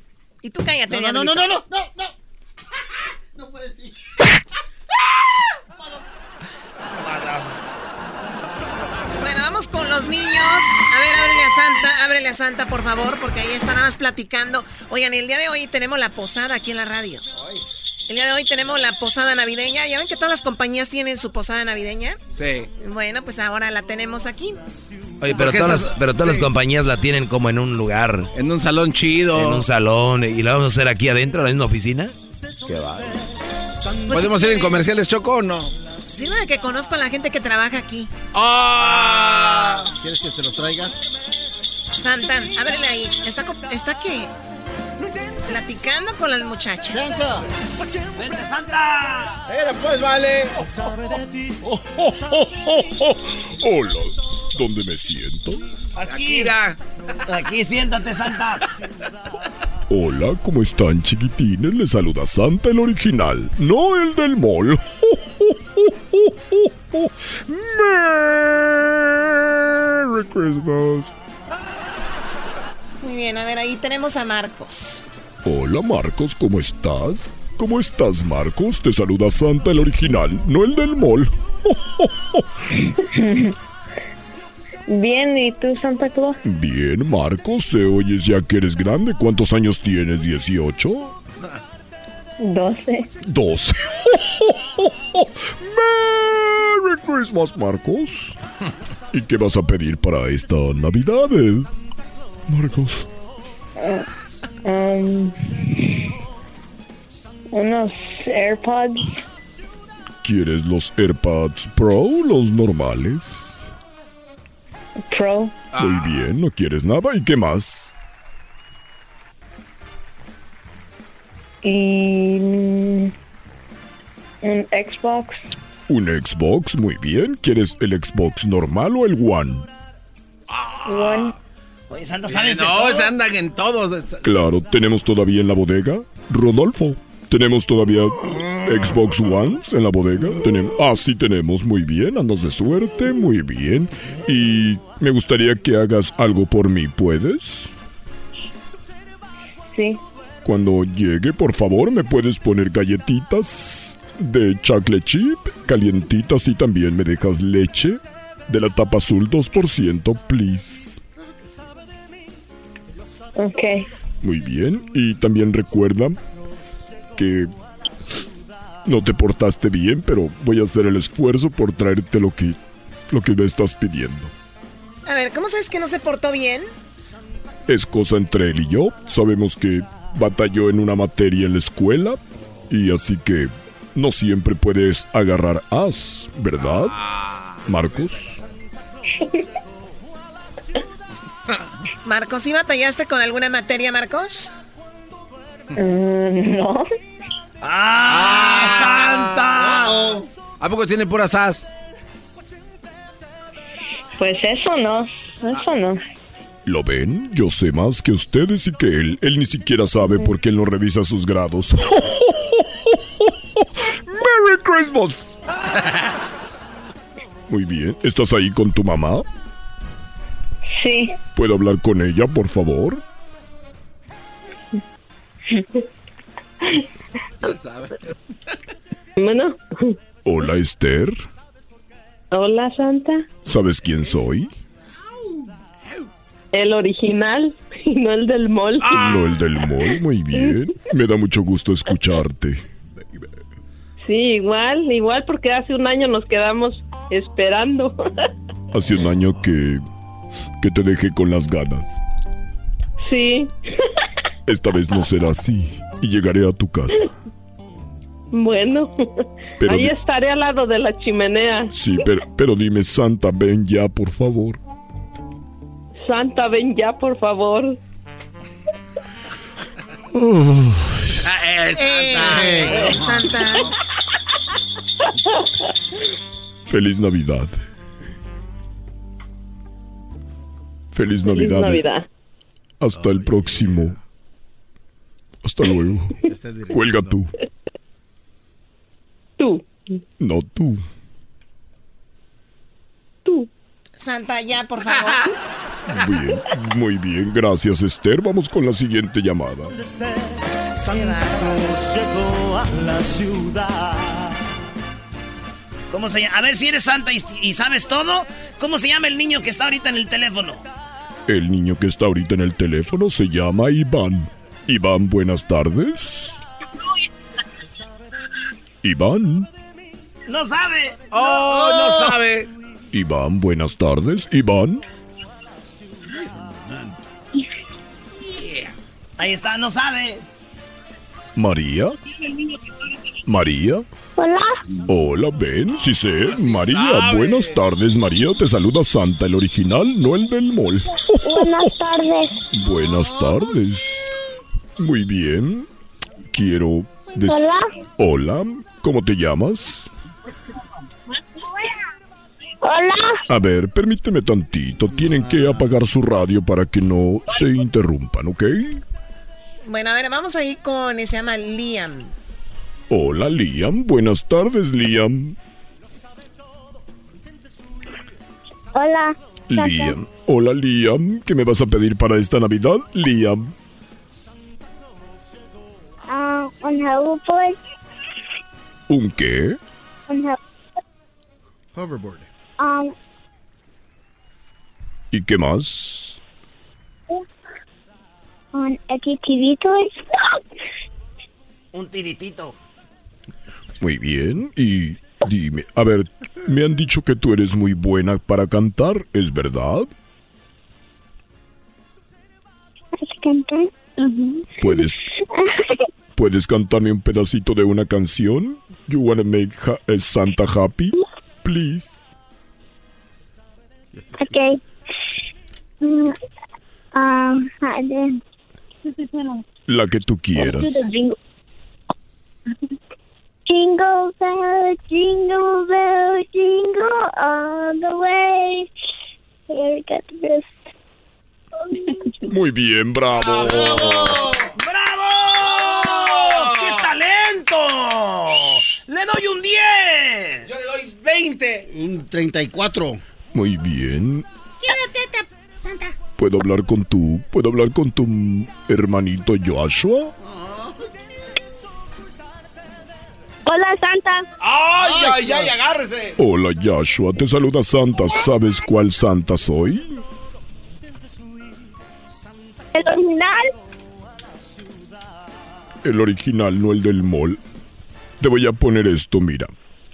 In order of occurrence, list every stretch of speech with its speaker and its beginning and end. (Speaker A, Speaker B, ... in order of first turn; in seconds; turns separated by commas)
Speaker A: 0.4-1.6, Speaker B: 0.9-2.0, Speaker B: 3.4-3.9, Speaker A: 9.2-17.2, Speaker A: 18.1-22.2, Speaker C: 22.3-22.7, Speaker A: 22.8-24.6, Speaker C: 25.2-26.4, Speaker D: 25.2-28.3, Speaker C: 28.3-29.6, Speaker D: 29.3-32.1, Speaker D: 32.7-33.0, Speaker C: 34.1-35.7, Speaker A: 34.1-34.8, Speaker A: 36.1-38.1, Speaker C: 38.3-39.9, Speaker E: 38.8-39.8, Speaker B: 40.0-40.9, Speaker A: 42.0-44.3, Speaker A: 45.5-47.2, Speaker B: 46.9-47.4, Speaker E: 48.1-49.4, Speaker C: 49.5-50.5, Speaker F: 52.5-55.6, Speaker E: 56.0-56.5, Speaker C: 56.0-56.8, Speaker E: 57.2-58.6, Speaker F: 59.9-71.1, Speaker A: 73.0-75.0, Speaker F: 75.4-82.4, Speaker G: 83.1-83.5, Speaker G: 84.9-86.4, Speaker F: 86.4-91.2, Speaker G: 92.4-93.1, Speaker F: 93.2-98.4, Speaker F: 99.1-101.7, Speaker F: 102.5-103.1, Speaker G: 103.8-104.0, Speaker G: 104.6-106.1, Speaker G: 107.5-109.2, Speaker F: 110.2-113.7, Speaker G: 115.0-115.6, Speaker C: 115.7-116.2, Speaker F: 115.8-117.9, Speaker G: 121.6-123.1, Speaker G: 124.4-125.4, Speaker F: 125.9-129.7, Speaker C: 130.5-131.3, Speaker G: 130.8-131.3, Speaker E: 131.9-133.1, Speaker C: 132.3-134.2, Speaker F: 134.2-147.7, Speaker G: 149.7-150.0, Speaker F: 150.4-161.0, Speaker G: 163.3-163.9, Speaker F: 164.2-166.2, Speaker F: 167.2-167.5, Speaker F: 168.8-172.6, Speaker F: 173.1-174.3, Speaker A: 175.1-176.7, Speaker F: 177.7-182.2, Speaker F: 182.7-187.0, Speaker C: 186.6-187.7, Speaker F: 187.7-188.4, Speaker A: 192.0-194.5, Speaker G: 195.8-196.9, Speaker E: 197.6-200.1, Speaker C: 198.1-199.4, Speaker B: 199.6-200.2, Speaker C: 200.6-201.7, Speaker G: 204.2-206.0, Speaker F: 206.7-212.6, Speaker F: 213.6-215.3, Speaker F: 217.5-219.2, Speaker G: 220.8-221.1, Speaker F: 221.3-223.0, Speaker C: 227.4-228.1, Speaker G: 229.2-229.9, Speaker F: 230.2-231.2, Speaker G: 232.3-233.3, Speaker F: 233.4-234.5, Speaker G: 236.5-239.0, Speaker F: 238.9-242.6, Speaker G: 244.0-248.0, Speaker F: 248.7-249.8, Speaker F: 250.6-252.0, Speaker G: 253.0-253.5, Speaker F: 254.5-257.1, Speaker G: 258.3-258.9, Speaker F: 259.6-259.9, Speaker G: 259.7-261.7, Speaker F: 261.7-264.6, Speaker G: 266.0-267.8, Speaker F: 270.1-271.1, Speaker C: 271.2-272.9, Speaker A: 271.7-273.7, Speaker B: 272.1-273.6, Speaker F: 276.6-277.6, Speaker F: 280.9-281.9, Speaker G: 281.2-282.1, Speaker F: 282.8-284.0, Speaker B: 282.9-283.9, Speaker F: 285.4-286.2, Speaker B: 286.2-287.2, Speaker F: 286.7-287.3, Speaker G: 289.4-289.6, Speaker F: 290.2-290.8, Speaker A: 294.0-295.3, Speaker F: 295.9-299.7, Speaker H: 299.7-304.4, Speaker A: 300.9-301.5, Speaker E: 305.9-310.6, Speaker F: 311.3-316.4, Speaker F: 318.8-319.5, Speaker E: 320.3-321.0, Speaker C: 321.1-322.5, Speaker B: 321.6-322.1, Speaker F: 322.9-324.8, Speaker B: 326.1-326.9, Speaker C: 328.3-328.7, Speaker E: 329.2-330.2, Speaker F: 331.4-331.9, Speaker F: 333.2-333.8, Speaker I: 334.2-334.6, Speaker F: 334.9-341.7, Speaker C: 336.2-337.6, Speaker I: 341.2-342.4, Speaker F: 342.5-344.1, Speaker F: 344.8-345.7, Speaker F: 346.3-349.9, Speaker I: 347.2-347.7, Speaker I: 352.6-353.2, Speaker F: 353.3-358.8, Speaker B: 354.9-355.7, Speaker A: 359.6-362.1, Speaker F: 362.9-365.4, Speaker I: 368.7-369.9, Speaker F: 369.5-373.5, Speaker I: 376.1-377.6, Speaker F: 378.9-379.6, Speaker I: 380.1-380.4, Speaker B: 381.7-382.3, Speaker I: 382.6-382.9, Speaker F: 385.1-386.2, Speaker I: 388.5-390.4, Speaker E: 391.7-392.6, Speaker F: 393.8-399.9, Speaker I: 402.9-405.8, Speaker F: 404.6-405.0, Speaker F: 406.1-411.9, Speaker B: 413.9-414.2, Speaker I: 414.2-414.6, Speaker I: 415.8-416.1, Speaker I: 416.9-418.2, Speaker F: 419.7-420.8, Speaker I: 420.4-421.1, Speaker I: 423.5-428.7, Speaker I: 429.5-430.6, Speaker I: 431.6-432.1, Speaker F: 432.3-434.3, Speaker B: 433.5-434.5, Speaker E: 434.6-440.5, Speaker C: 435.5-436.8, Speaker C: 440.4-441.7, Speaker B: 441.7-443.0, Speaker F: 443.3-444.2, Speaker A: 444.6-445.9, Speaker F: 446.2-450.1, Speaker B: 450.2-450.9, Speaker I: 453.4-454.2, Speaker C: 454.4-456.1, Speaker B: 454.8-455.5, Speaker F: 456.2-460.0, Speaker I: 462.7-463.5, Speaker F: 465.8-467.4, Speaker F: 468.2-469.5